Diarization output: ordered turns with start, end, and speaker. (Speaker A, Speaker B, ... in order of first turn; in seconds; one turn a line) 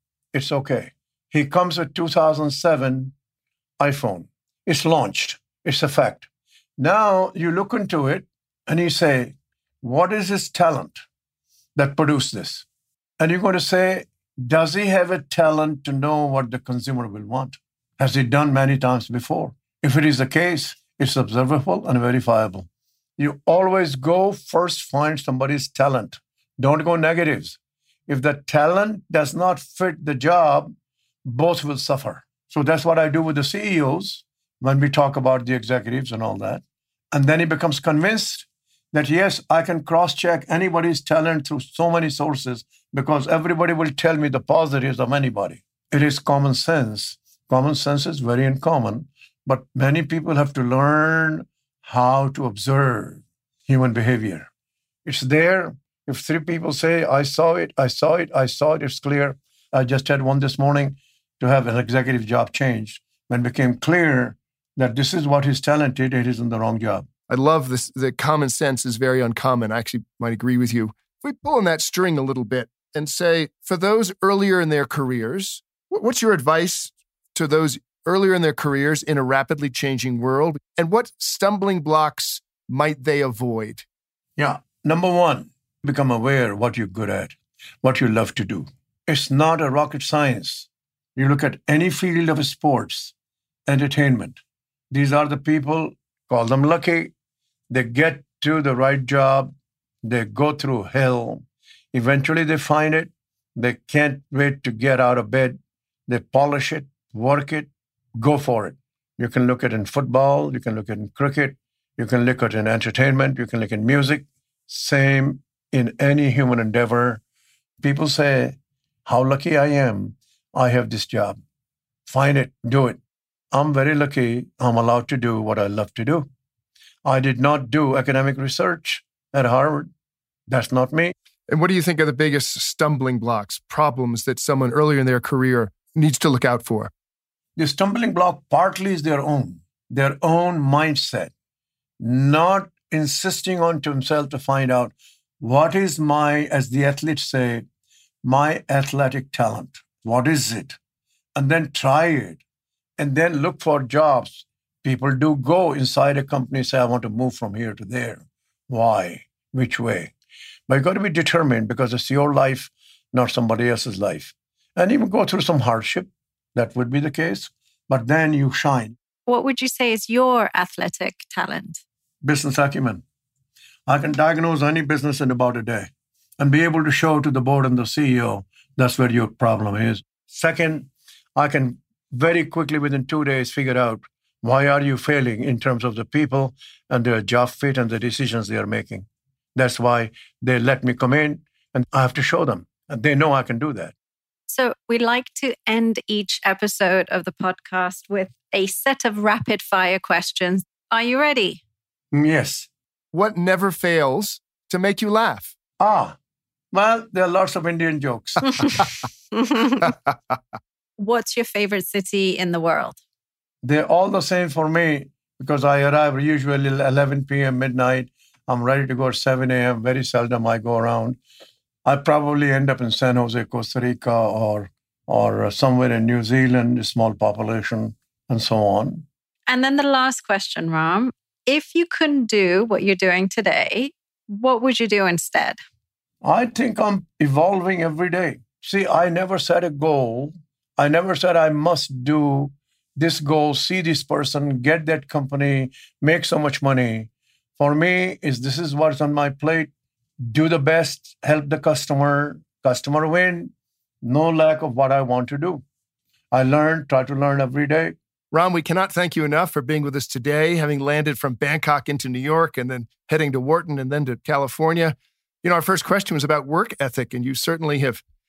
Speaker A: 0.3-3.1
Speaker A: 3.8-11.0
Speaker A: 11.8-12.7
Speaker A: 13.2-54.5
Speaker A: 55.0-67.1
Speaker B: 67.3-83.8
Speaker A: 84.4-93.1
Speaker A: 93.7-97.1
Speaker A: 97.7-117.2
Speaker A: 117.8-121.4
Speaker A: 122.1-123.0
Speaker A: 123.5-126.3
Speaker A: 127.0-129.9
Speaker A: 130.5-131.1
Speaker B: 131.5-136.9
Speaker A: 137.6-141.3
Speaker A: 142.0-147.7
Speaker A: 148.2-150.8
Speaker A: 151.3-152.4
Speaker A: 153.0-160.1
Speaker A: 160.7-169.0
Speaker C: 169.3-171.8
Speaker A: 172.2-173.0
Speaker A: 173.9-193.9
Speaker C: 194.5-201.6
Speaker A: 202.1-202.7
Speaker B: 203.1-205.5
Speaker A: 205.8-206.2
Speaker A: 206.7-208.5
Speaker C: 209.4-209.9
Speaker C: 211.0-213.0
Speaker A: 213.6-221.2
Speaker A: 221.8-229.1
Speaker C: 229.5-235.6
Speaker A: 236.2-249.7
Speaker A: 250.2-255.6
Speaker A: 256.3-258.0
Speaker B: 258.3-268.0